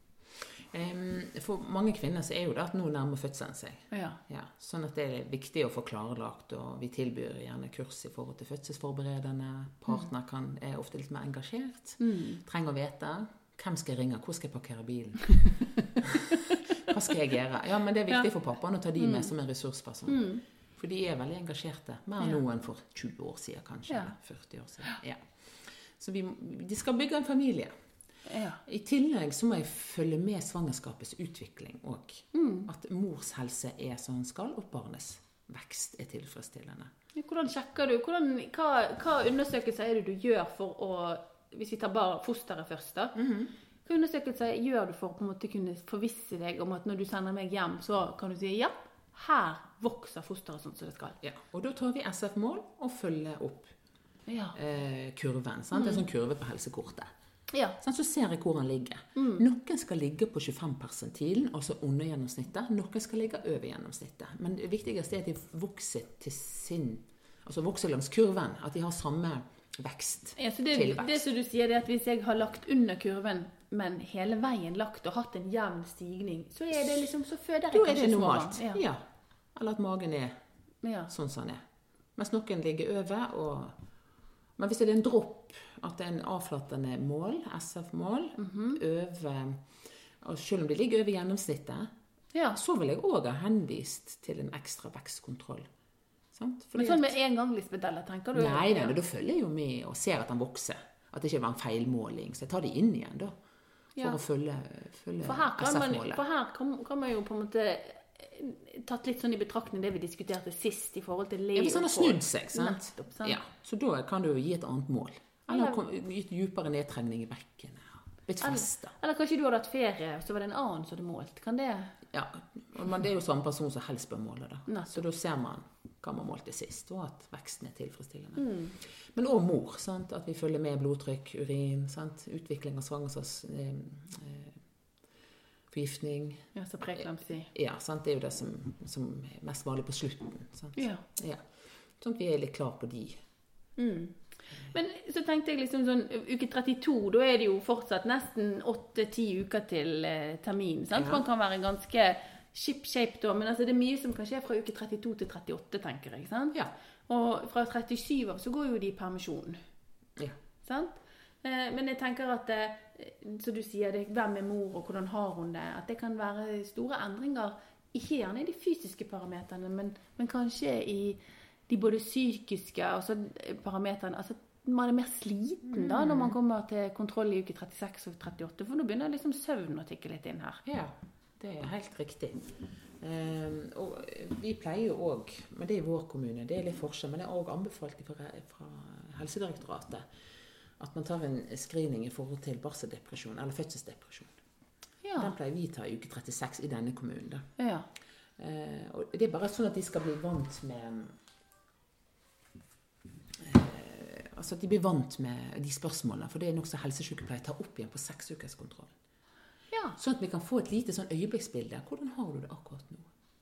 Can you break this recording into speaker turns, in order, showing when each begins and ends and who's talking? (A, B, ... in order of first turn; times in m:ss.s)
0:00.7-0:25.2 A
0:03.9-0:04.2 B
0:12.0-0:12.4 B
0:16.3-0:16.6 B
0:19.0-0:19.3 B
0:20.1-0:20.4 B
0:23.9-0:24.1 B
0:26.0-0:27.7 A
0:28.3-0:28.6 B
0:28.6-0:36.9 A
0:32.3-0:32.7 B
0:37.1-0:43.2 B
0:43.2-0:43.5 A
0:43.8-0:51.2 B
0:51.2-0:53.7 A
0:54.3-0:54.6 B
0:54.5-0:57.1 A
0:55.7-0:56.0 B
0:57.5-0:57.8 B
0:57.8-1:11.2 A
0:59.2-0:59.4 B
1:10.4-1:18.8 B
1:17.7-1:19.0 A
1:19.5-1:20.3 A
1:20.8-1:21.1 B
1:21.1-1:21.6 A
1:22.2-1:23.7 A
1:24.6-1:29.6 A
1:28.4-1:28.8 B
1:30.2-1:31.9 A
1:32.5-1:35.7 A
1:36.3-1:37.1 A
1:36.8-1:39.0 B
1:38.3-1:43.3 A
1:44.0-1:46.2 A
1:45.2-1:53.4 B
1:51.6-1:58.9 A
1:55.5-1:55.8 B
1:58.4-2:02.0 B
2:02.1-2:14.6 A
2:04.7-2:05.0 B
2:08.4-2:08.8 B
2:15.7-2:21.4 A
2:16.5-2:17.5 B
2:20.7-2:21.0 B
2:22.0-2:23.2 A
2:23.8-2:39.6 B
2:30.9-2:31.2 A
2:40.6-3:00.6 B
2:55.7-2:56.4 A
3:00.6-3:02.5 A
3:03.0-3:10.0 A
3:10.8-3:14.3 A
3:15.0-3:15.3 B
3:15.2-3:17.4 A
3:17.6-3:17.9 B
3:18.4-3:21.1 A
3:23.4-3:28.9 A
3:30.0-3:33.1 A